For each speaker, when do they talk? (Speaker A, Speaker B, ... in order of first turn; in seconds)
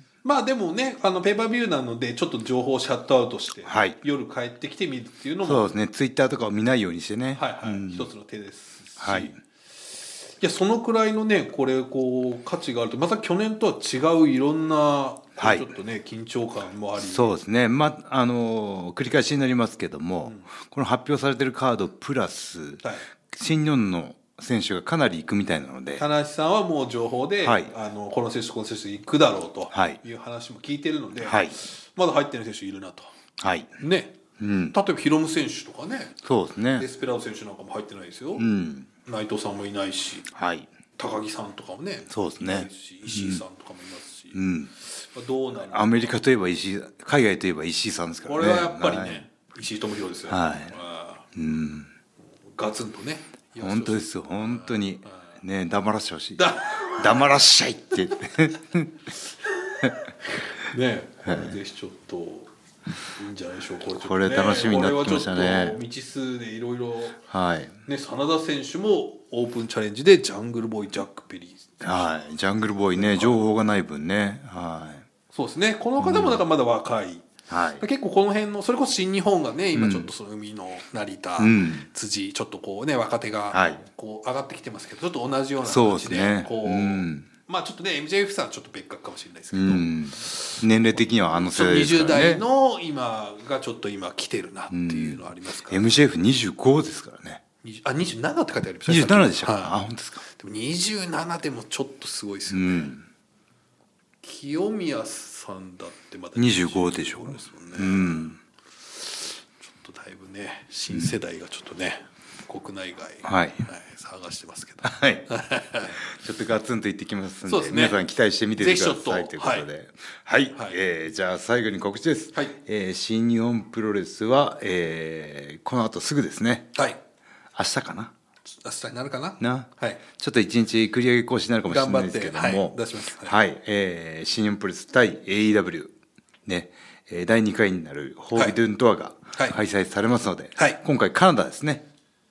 Speaker A: 0.2-5.7, 7.3-9.3, 10.3-17.4, 20.2-20.5, 22.8-23.1, 25.9-33.1, 33.8-34.2, 34.7-36.2, 36.7-38.5, 39.0-40.3, 41.0-46.2, 48.2-51.2, 52.4-55.4, 56.4-57.2, 59.5-62.5, 63.0-67.2, 67.8-72.1, 72.9-73.4, 75.3-77.2, 77.8-96.0, 97.6-102.9, 104.2-108.4, 109.0-116.0, 117.4-118.0, 118.5-119.7, 120.5-120.8, 126.7-127.0, 128.5-130.0, 131.7-133.4, 139.3-139.6
Speaker B: 3.6-4.0, 5.4-8.1, 9.0-9.3, 15.4-15.7, 17.0-26.1, 27.4-27.7, 29.7-30.0, 31.2-31.6, 33.4-33.7, 34.4-34.8, 36.2-36.9, 38.4-38.9, 40.3-40.7, 42.1-43.4, 44.3-44.7, 45.7-49.2, 50.3-50.7, 51.3-51.9, 53.6-58.9, 61.2-61.5, 64.0-65.8, 67.3-67.8, 71.8-75.0, 76.0-76.4, 77.5-77.8, 79.7-80.1, 81.4-81.9, 83.5-83.8, 85.6-87.3, 89.5-92.4, 94.7-97.4, 98.9-100.2, 102.5-103.0, 106.3-108.4, 113.2-113.7, 114.8-115.3, 116.0-126.7, 127.5-128.1, 129.4-135.9, 136.4-141.8